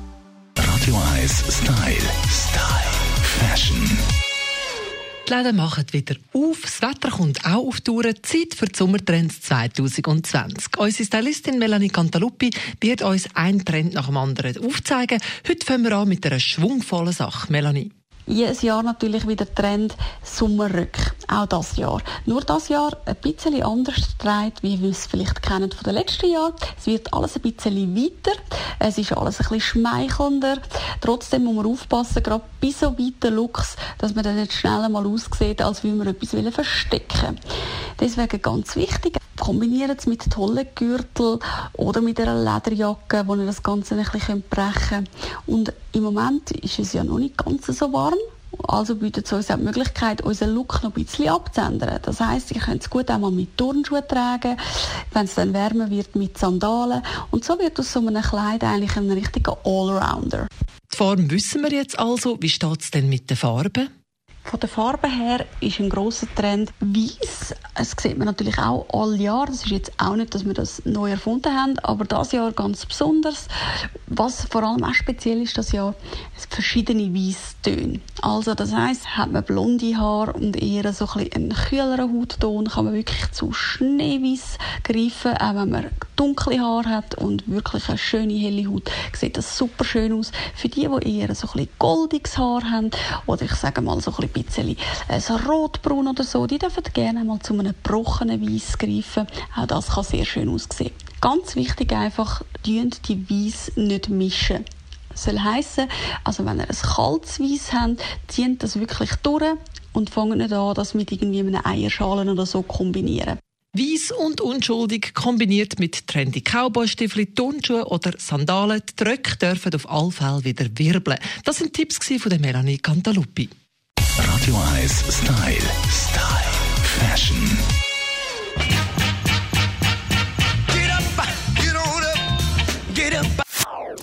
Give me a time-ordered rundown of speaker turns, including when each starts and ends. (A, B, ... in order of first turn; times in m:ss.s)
0:00.6-0:04.0 A
0:05.3-0:17.9 B
0:18.3-0:37.4 C
0:38.0-0:54.6 C
0:55.1-1:00.5 C
1:00.9-1:03.9 B
1:04.5-1:13.5 C
1:14.1-1:53.4 C
1:53.7-2:03.5 B
2:04.2-2:07.6 A